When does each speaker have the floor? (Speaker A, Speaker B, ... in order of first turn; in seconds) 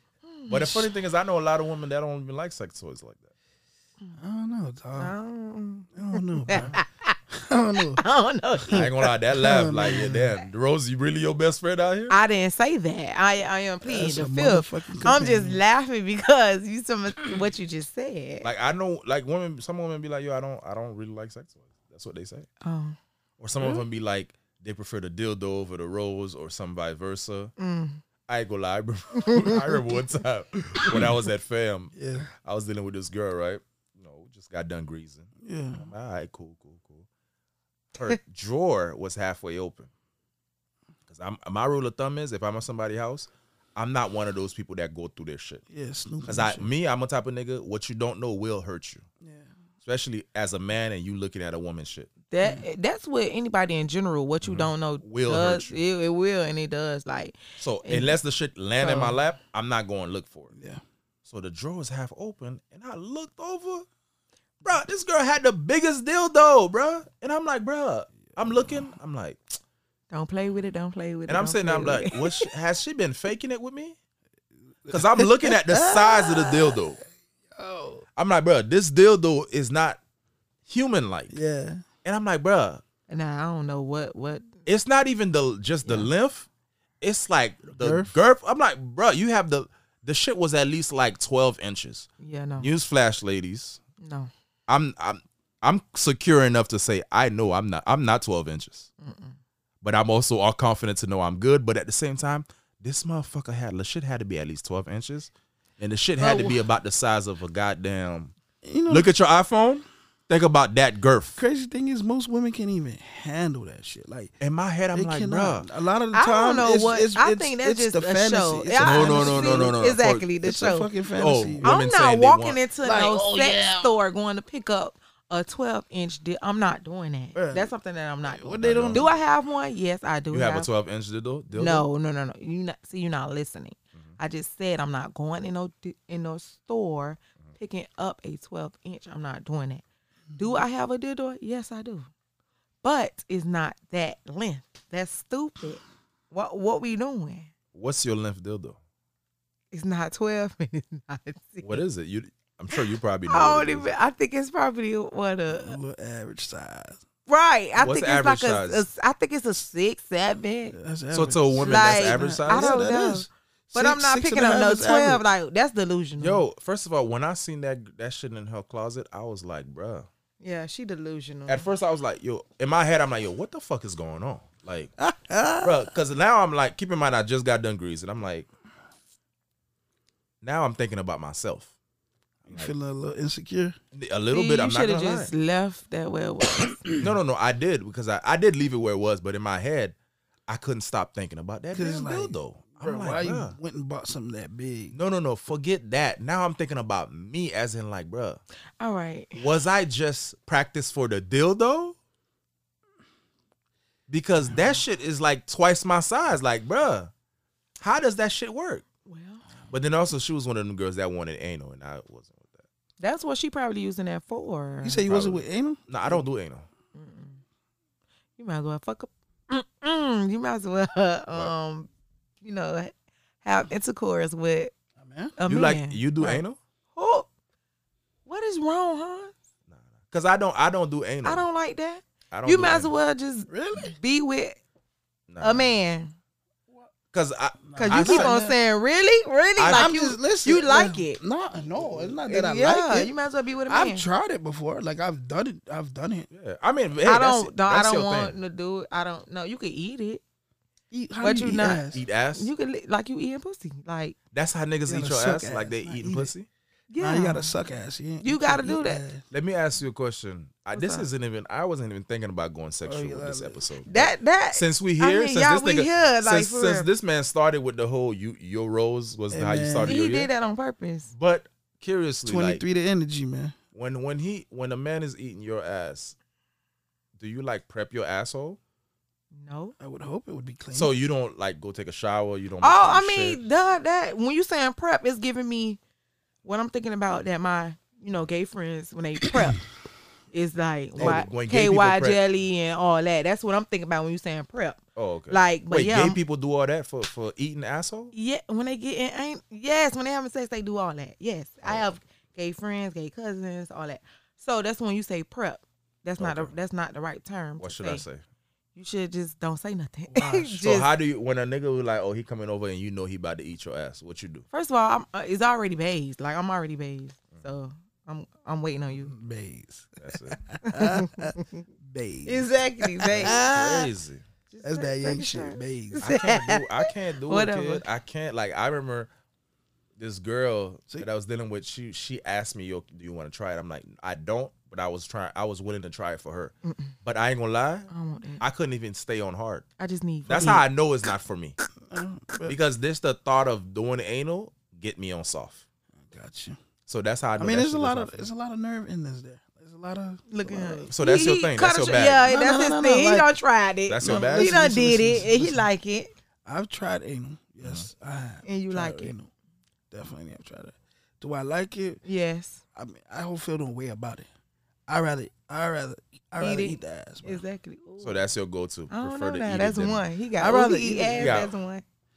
Speaker A: 0.3-0.9, 5.0-7.2, 7.9-9.1, 12.1-18.5, 22.6-23.0, 27.6-28.0, 29.1-29.8, 52.3-58.1, 58.8-59.2, 70.1-72.5, 83.1-84.5, 85.8-86.1, 92.2-92.7, 94.0-94.3, 99.0-99.4, 106.2-106.6, 116.1-120.9, 121.6-130.7, 131.5-139.8, 140.3-142.1, 142.8-147.5, 149.7-151.8, 152.7-155.8, 157.3-160.8, 161.6-166.4, 170.4-171.7, 184.3-186.8, 198.8-199.5, 209.1-209.4, 213.0-215.0, 216.9-217.4, 218.4-221.9, 222.4-224.7, 225.4-226.4, 226.9-227.3, 228.3-229.3, 231.2-234.6, 235.4-236.1, 237.8-241.2, 242.2-244.1, 247.0-250.2, 251.2-254.2, 256.9-257.6, 258.2-259.0, 260.7-261.1, 263.9-266.9, 269.8-271.1, 279.3-279.8, 282.6-285.8, 286.4-289.6, 290.3-296.2, 298.1-308.0, 308.8-310.9, 314.5-319.1, 320.6-321.6, 322.3-323.9, 324.5-327.8, 336.7-336.9, 337.9-338.4, 339.8-340.6, 350.3-356.1, 358.4-359.1, 362.1-362.6, 366.4-368.2, 368.9-371.8
Speaker B: 0.5-3.3, 8.7-12.2, 18.4-22.5, 23.4-27.5, 28.3-37.1, 38.0-39.9, 41.1-45.6, 46.3-49.1, 49.9-52.1, 54.4-55.8, 57.6-60.5, 61.3-63.9, 64.6-69.6, 71.3-74.0, 74.9-77.0, 78.2-80.0, 80.7-81.4, 82.0-82.8, 84.7-86.5, 87.0-92.1, 92.6-93.8, 94.7-98.9, 99.8-108.3, 108.9-111.4, 114.4-115.7, 118.8-120.3, 121.2-122.6, 128.5-129.1, 130.3-131.9, 147.7-148.8, 151.6-153.9, 157.8-158.9, 161.1-162.8, 166.2-170.1, 171.5-174.9, 175.6-178.5, 180.4-181.7, 183.9-185.3, 186.9-189.9, 190.5-193.6, 194.9-198.4, 199.3-201.9, 204.1-207.1, 207.8-208.8, 209.7-212.7, 215.1-216.7, 225.5-226.6, 229.7-231.4, 232.3-232.9, 235.3-235.7, 237.1-238.3, 239.6-239.9, 246.3-248.4, 251.9-252.5, 254.3-256.5, 259.3-270.3, 271.1-272.6, 273.7-276.2, 277.2-278.6, 280.7-283.4, 291.0-292.2, 295.0-298.1, 301.6-301.9, 306.2-306.5, 307.6-308.2, 310.1-314.5, 320.0-320.4, 323.1-324.2, 326.0-329.1, 330.0-339.7, 340.3-341.6, 342.4-345.6, 346.9-348.3, 350.9-352.3, 353.9-354.6, 368.0-370.1, 371.2-371.5
Speaker C: 4.2-5.1, 5.9-6.8, 7.3-8.0, 8.6-10.4, 13.8-15.6, 23.6-23.9, 30.7-31.1, 31.9-32.3, 35.4-35.9, 45.7-46.7, 49.2-49.5, 60.5-60.8, 68.2-68.9, 74.8-77.0, 77.5-78.0, 81.3-81.9, 87.7-88.1, 108.6-109.1, 111.4-114.3, 114.9-119.8, 120.4-121.7, 122.8-123.9, 127.3-129.2, 140.3-140.6, 155.5-157.0, 160.7-165.2, 175.0-175.9, 182.5-183.8, 191.7-194.9, 214.8-216.3, 225.0-225.3, 233.5-234.0, 237.7-238.6, 239.7-243.1, 243.7-246.3, 250.9-252.0, 254.9-256.3, 257.0-259.2, 262.8-263.7, 269.3-270.0, 272.3-273.6, 279.8-280.9, 318.9-323.8, 324.6-326.1, 341.8-342.6, 346.0-346.6, 347.4-350.9, 352.2-353.3, 354.0-355.7, 356.4-359.3, 359.9-362.0, 362.8-364.3, 364.9-367.4, 370.4-371.4